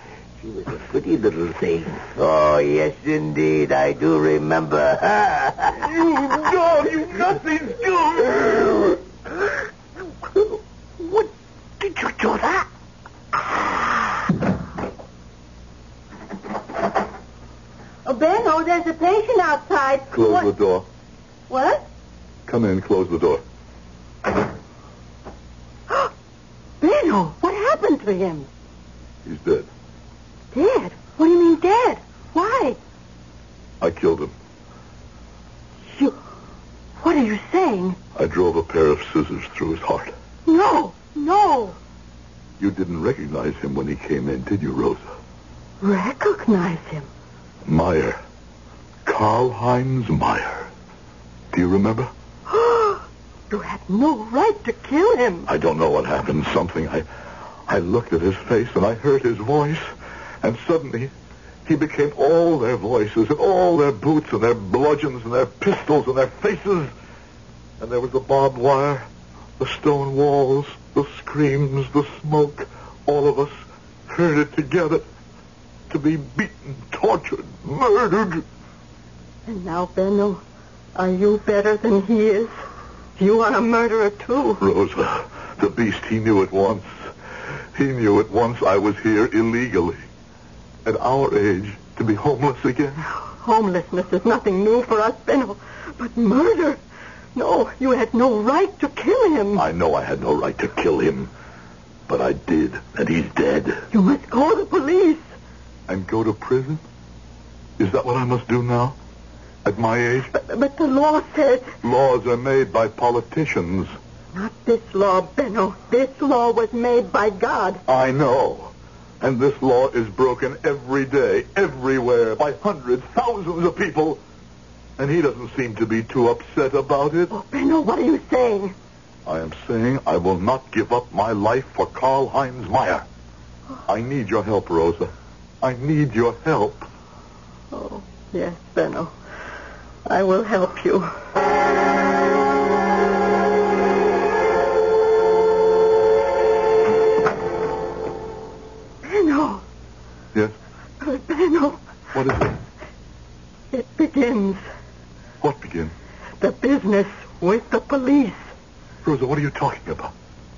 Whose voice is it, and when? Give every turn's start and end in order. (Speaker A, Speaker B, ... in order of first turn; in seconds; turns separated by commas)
Speaker A: 0.4-5.8, Speaker B: 5.8-8.4, Speaker A: 8.4-8.9, Speaker A: 11.0-11.3, Speaker A: 11.8-12.7, Speaker C: 18.1-20.5, Speaker B: 20.1-20.9, Speaker C: 21.5-21.9, Speaker B: 22.5-23.4, Speaker C: 26.8-28.5, Speaker B: 29.2-29.7, Speaker C: 30.5-32.8, Speaker B: 33.8-34.3, Speaker C: 37.0-38.0, Speaker B: 38.2-40.1, Speaker C: 40.5-41.8, Speaker B: 42.6-45.1, Speaker C: 45.8-47.1, Speaker B: 47.6-48.2, Speaker B: 49.1-50.7, Speaker B: 51.5-52.1, Speaker C: 52.5-55.5, Speaker B: 55.5-57.1, Speaker B: 57.7-61.1, Speaker B: 61.7-66.9, Speaker B: 67.8-69.1, Speaker B: 69.6-75.0, Speaker B: 75.9-78.4, Speaker C: 79.5-80.4, Speaker C: 81.0-82.5, Speaker C: 83.2-84.6, Speaker B: 84.6-87.0, Speaker B: 87.8-90.0, Speaker B: 90.8-93.0, Speaker C: 93.2-96.8, Speaker C: 97.3-99.7, Speaker B: 99.5-101.3, Speaker B: 102.1-103.8, Speaker C: 103.9-105.2, Speaker B: 105.9-106.8, Speaker B: 107.8-109.0, Speaker B: 109.7-110.3, Speaker C: 110.3-111.8, Speaker B: 111.8-114.0, Speaker C: 114.3-117.8, Speaker B: 117.9-124.2, Speaker B: 125.0-127.3, Speaker C: 127.3-128.8, Speaker B: 129.3-133.1, Speaker B: 133.9-136.9, Speaker C: 137.7-139.2, Speaker C: 140.1-141.2, Speaker C: 149.0-149.6, Speaker C: 151.0-151.8, Speaker B: 152.1-152.5, Speaker C: 153.7-154.6, Speaker B: 155.4-155.9, Speaker C: 156.4-158.5, Speaker B: 159.0-160.1